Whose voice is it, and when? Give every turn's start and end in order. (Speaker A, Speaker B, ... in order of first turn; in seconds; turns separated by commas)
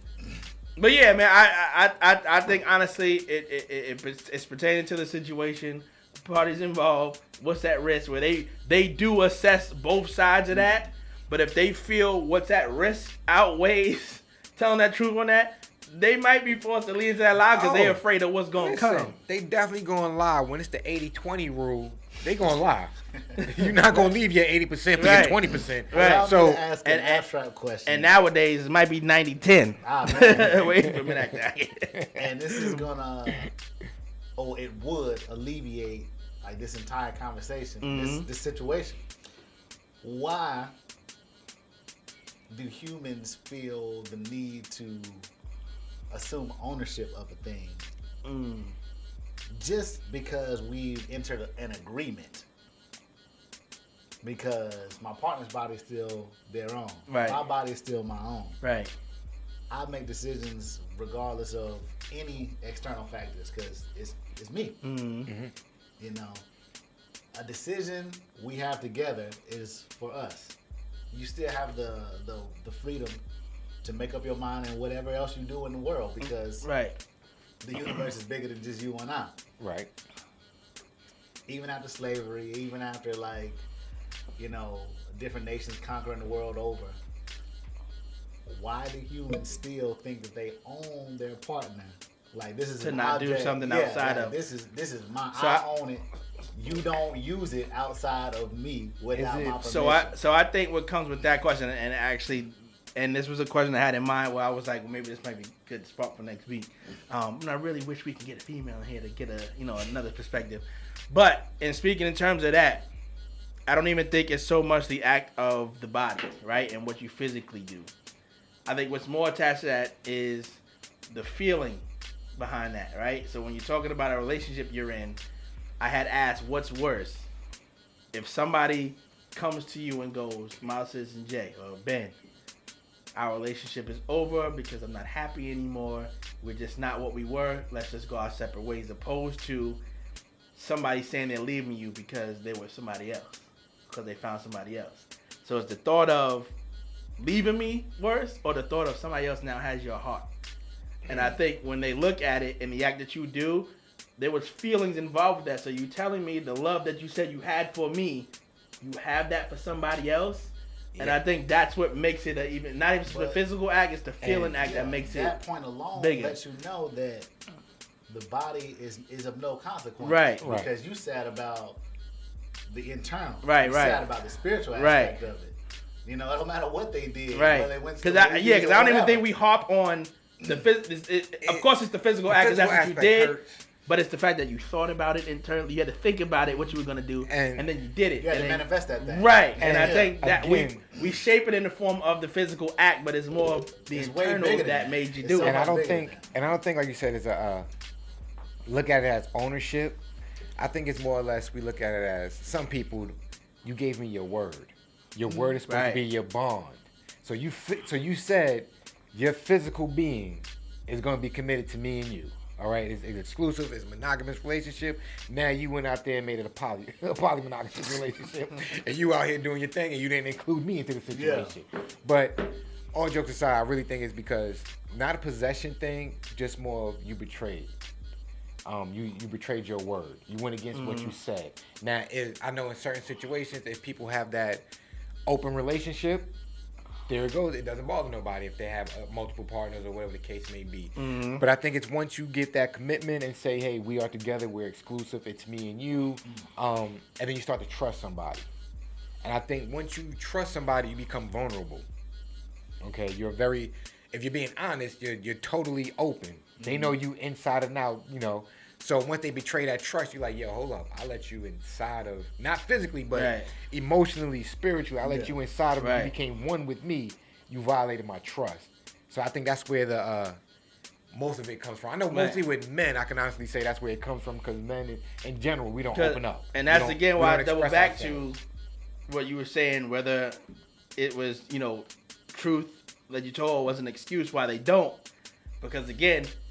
Speaker A: 0.8-19.1, Speaker B: 17.5-18.0, Speaker B: 18.5-26.6, Speaker A: 24.9-26.2, Speaker C: 25.9-28.1, Speaker A: 26.8-27.2, Speaker A: 27.9-31.9, Speaker C: 29.8-30.8, Speaker B: 30.8-31.2, Speaker B: 31.9-32.8, Speaker C: 32.1-33.5, Speaker C: 34.4-39.0, Speaker A: 37.8-38.2, Speaker C: 40.0-40.7, Speaker C: 42.5-45.3, Speaker C: 46.1-47.9, Speaker A: 48.2-48.8, Speaker C: 49.5-52.5, Speaker C: 54.2-58.6, Speaker A: 57.1-57.4, Speaker A: 58.6-58.9, Speaker C: 59.7-64.8, Speaker A: 64.8-65.3, Speaker B: 65.3-65.5, Speaker C: 66.0-66.4, Speaker C: 67.3-70.5, Speaker C: 71.1-73.2, Speaker C: 73.8-76.7, Speaker A: 76.6-77.0, Speaker C: 77.6-79.3, Speaker B: 79.6-79.9, Speaker C: 81.5-83.6, Speaker C: 84.4-87.0, Speaker C: 88.5-100.2, Speaker A: 92.8-94.3, Speaker A: 95.3-95.6, Speaker B: 99.1-99.5, Speaker A: 99.2-112.9, Speaker A: 113.7-117.9, Speaker A: 118.7-125.2, Speaker A: 125.8-127.3, Speaker A: 128.1-132.2, Speaker A: 133.1-139.8, Speaker A: 140.5-146.5, Speaker A: 147.2-150.3, Speaker B: 151.1-151.3, Speaker A: 151.1-158.3, Speaker A: 158.8-165.3, Speaker B: 160.9-161.2, Speaker C: 163.1-163.4, Speaker B: 164.2-164.6, Speaker C: 164.4-167.3, Speaker A: 165.9-166.4, Speaker C: 168.1-171.8, Speaker A: 170.0-170.5, Speaker B: 170.4-170.7, Speaker C: 172.7-179.3, Speaker A: 173.4-174.0, Speaker A: 174.7-175.2, Speaker A: 177.3-183.3, Speaker B: 181.4-181.7, Speaker B: 182.3-183.6, Speaker A: 183.8-195.6, Speaker B: 187.2-187.7, Speaker C: 188.2-190.2, Speaker B: 189.6-190.8, Speaker C: 193.9-196.2, Speaker B: 195.4-197.7, Speaker B: 198.7-200.0, Speaker B: 200.6-227.7, Speaker C: 205.3-205.6, Speaker A: 205.7-206.0, Speaker C: 221.1-221.5, Speaker B: 228.7-234.6, Speaker A: 230.7-231.2, Speaker B: 235.3-236.3, Speaker B: 237.1-248.5, Speaker A: 241.0-241.4, Speaker B: 249.2-251.8, Speaker B: 252.8-270.4, Speaker C: 256.6-256.9, Speaker A: 263.1-263.5, Speaker C: 265.0-265.3, Speaker A: 265.8-266.1, Speaker B: 271.1-278.3, Speaker A: 272.1-272.4, Speaker A: 275.9-278.4, Speaker A: 279.1-280.4, Speaker A: 281.0-285.0, Speaker A: 285.6-286.3